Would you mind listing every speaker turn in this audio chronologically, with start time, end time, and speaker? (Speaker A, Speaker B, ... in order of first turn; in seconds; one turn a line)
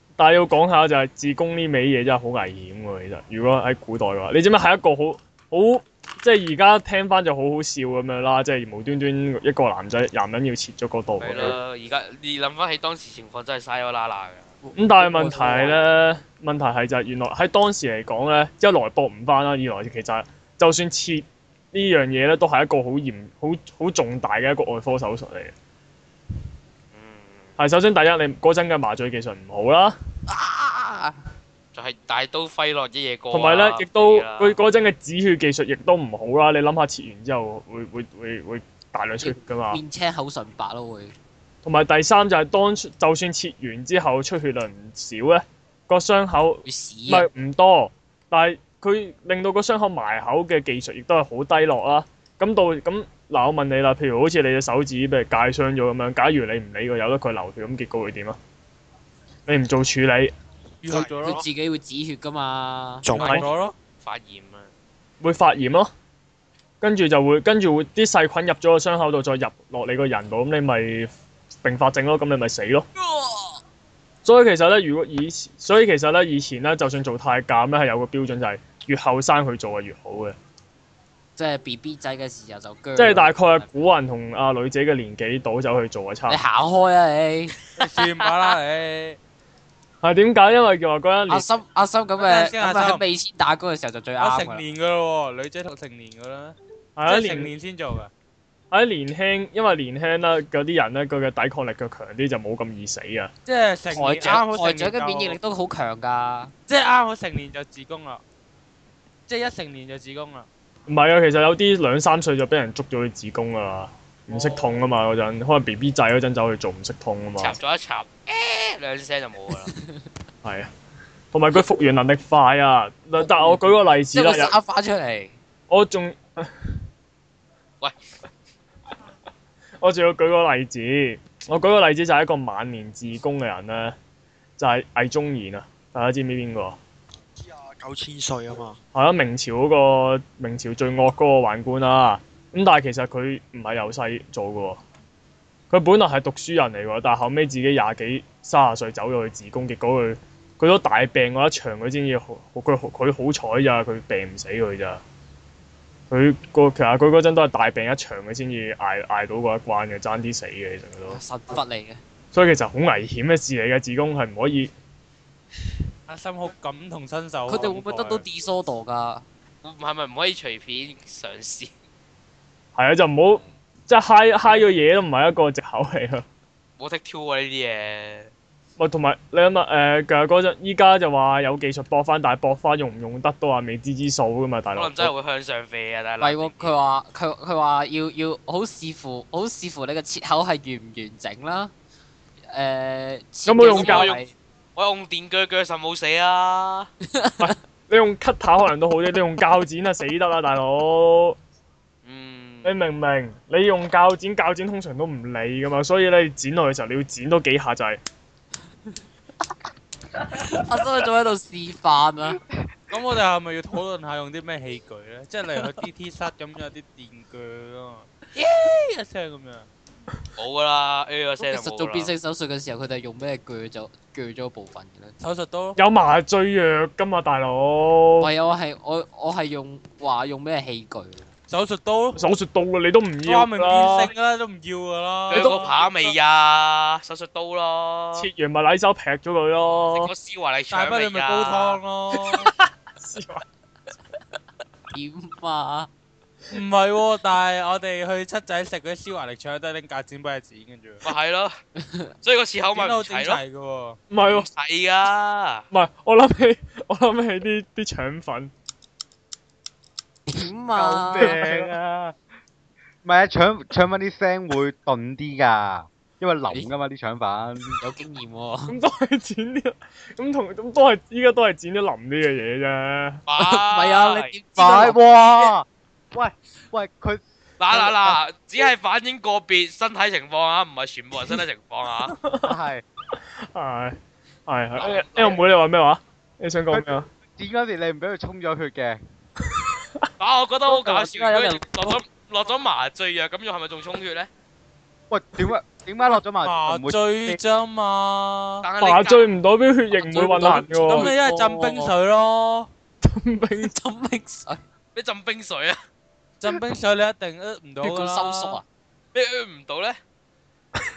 Speaker A: 0.2-11.6
Speaker B: 11.2-14.5
Speaker C: 14.6-15.8
Speaker A: 14.8-25.5
Speaker B: 26.9-27.5
Speaker A: 27.6-30.0
Speaker C: 30.3-31.2
Speaker B: 31.7-34.5
Speaker A: 33.3-39.8
Speaker C: 39.2-41.1
Speaker A: 41.6-58.4
Speaker C: 46.6-47.3
Speaker A: 59.5-60.3
Speaker D: 60.8-61.4
Speaker E: 60.9-61.4
Speaker C: 61.2-63.1
Speaker E: 63.0-63.5
Speaker D: 63.1-63.7
Speaker B: 64.0-64.7
Speaker A: 65.2-65.9
Speaker A: 66.8-71.1
Speaker A: 71.6-72.8
Speaker C: 73.0-73.5
Speaker A: 74.2-80.4
Speaker C: 81.3-83.7
Speaker A: 83.0-86.4
Speaker C: 86.3-87.6
Speaker D: 87.8-89.2
Speaker A: 90.0-91.5
Speaker C: 91.3-94.6
Speaker D: 92.2-93.0
Speaker D: 94.2-96.5
Speaker A: 97.0-97.5
Speaker D: 97.1-98.1
Speaker A: 98.7-103.3
Speaker D: 103.5-105.4
Speaker C: 103.9-106.5
Speaker D: 106.7-108.2
Speaker D: 109.3-110.5
Speaker A: 110.9-117.6
Speaker B: 117.4-119.7
Speaker C: 119.7-120.0
Speaker A: 120.4-120.7
Speaker A: 121.3-124.5
Speaker C: 123.2-125.3
Speaker A: 125.7-126.5
Speaker A: 129.8-133.9
Speaker A: 134.6-136.8
Speaker E: 137.4-138.8
Speaker A: 138.9-144.8
Speaker A: 145.7-155.0
Speaker A: 156.1-161.2
Speaker C: 161.1-162.0
Speaker A: 162.3-164.7
Speaker D: 166.1-168.2
Speaker C: 167.5-169.2
Speaker B: 169.6-171.7
Speaker A: 172.8-176.2
Speaker B: 176.8-178.3
Speaker A: 178.8-185.1
Speaker B: 184.7-186.7
Speaker C: 186.2-191.7
Speaker C: 192.5-194.3
Speaker A: 193.4-194.2
Speaker B: 193.7-194.2
Speaker B: 194.8-196.9
Speaker C: 197.1-197.5
Speaker A: 197.4-201.4
Speaker B: 202.0-202.8
Speaker A: 202.6-208.0
Speaker C: 210.3-212.4
Speaker D: 212.9-219.7
Speaker B: 220.4-222.1
Speaker C: 221.4-225.1
Speaker D: 225.2-225.8
Speaker A: 225.8-228.3
Speaker C: 228.2-231.3
Speaker D: 231.5-232.2
Speaker A: 232.2-234.1
Speaker D: 233.2-235.6
Speaker B: 235.3-238.3
Speaker A: 235.3-235.9
Speaker A: 238.1-240.1
Speaker B: 239.9-241.8
Speaker D: 240.7-242.5
Speaker A: 242.3-243.4
Speaker C: 244.9-245.9
Speaker D: 246.5-251.1
Speaker B: 251.0-251.5
Speaker C: 251.8-252.1
Speaker B: 252.2-253.4
Speaker D: 252.7-254.0
Speaker A: 254.1-254.5
Speaker B: 254.3-255.6
Speaker A: 255.7-258.5
Speaker C: 260.3-261.4
Speaker F: 260.7-262.2
Speaker A: 261.2-261.7
Speaker F: 263.0-267.8
Speaker C: 267.8-268.8
Speaker A: 268.7-273.2
Speaker B: 273.3-274.3
Speaker C: 273.4-275.0
Speaker F: 274.6-278.1
Speaker B: 277.6-282.1
Speaker A: 282.2-282.6
Speaker F: 282.4-282.8
Speaker A: 283.5-287.1
Speaker B: 284.8-285.3
Speaker F: 286.7-289.0
Speaker A: 289.5-290.1
Speaker B: 290.2-294.3
Speaker C: 290.7-292.0
Speaker F: 295.1-297.4
Speaker D: 296.1-298.7
Speaker B: 298.6-299.3
Speaker A: 298.8-301.1
Speaker C: 299.9-301.9
Speaker D: 300.3-302.7
Speaker A: 303.0-303.7
Speaker C: 303.6-304.6
Speaker B: 304.9-305.8
Speaker D: 306.4-308.6
Speaker C: 307.8-308.6
Speaker B: 309.1-310.0